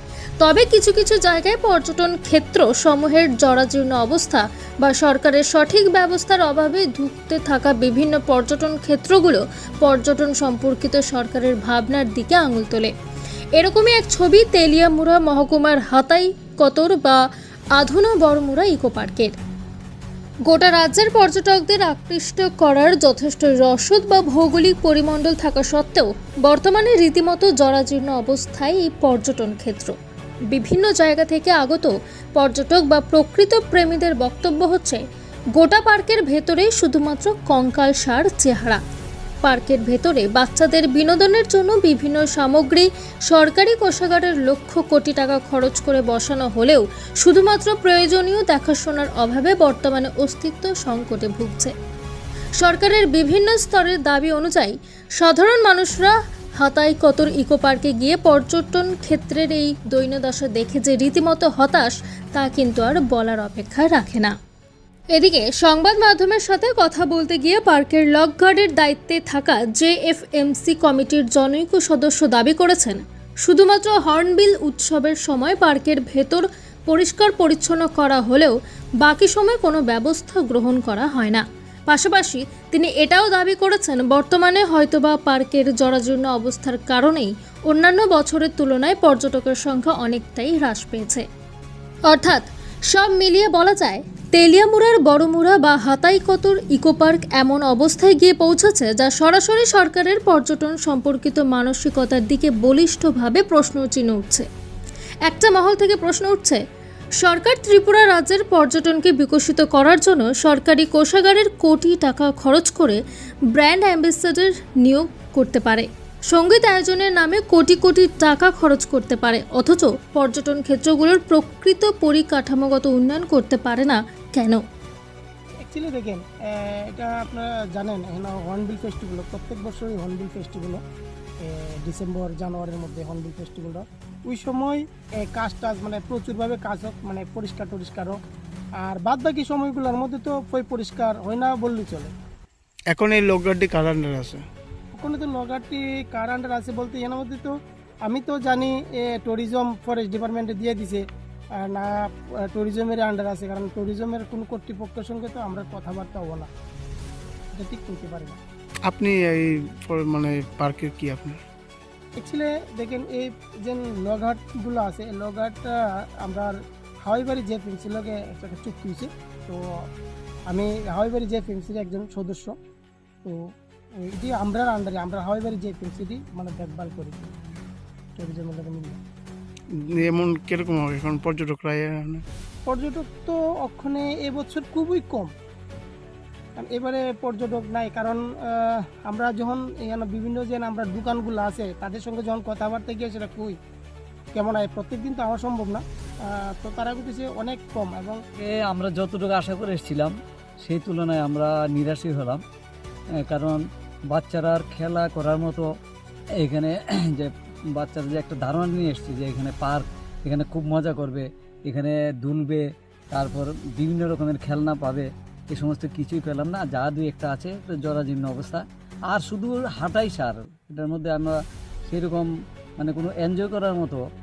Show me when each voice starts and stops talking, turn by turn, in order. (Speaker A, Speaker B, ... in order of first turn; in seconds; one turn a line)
Speaker A: 0.4-12.9
Speaker A: 13.6-17.2
Speaker A: 17.8-19.4
Speaker A: 20.5-30.0
Speaker A: 30.5-35.0
Speaker A: 35.5-38.8
Speaker A: 39.4-51.7
Speaker A: 52.6-64.3
Speaker A: 65.1-91.2
Speaker A: 92.1-104.5
Speaker A: 105.2-106.6
Speaker A: 107.2-113.0
Speaker A: 113.5-124.6
Speaker B: 125.6-130.8
Speaker B: 131.4-138.2
Speaker B: 138.8-142.1
Speaker C: 142.9-144.4
Speaker B: 145.0-151.0
Speaker B: 151.6-156.5
Speaker B: 157.6-158.4
Speaker C: 158.9-161.4
Speaker B: 162.2-169.6
Speaker B: 170.5-172.6
Speaker B: 174.0-177.3
Speaker B: 178.2-179.0
Speaker C: 179.7-182.2
Speaker B: 182.7-185.3
Speaker B: 186.6-193.6
Speaker B: 194.3-198.2
Speaker D: 198.4-202.4
Speaker D: 203.2-205.7
Speaker D: 206.4-224.0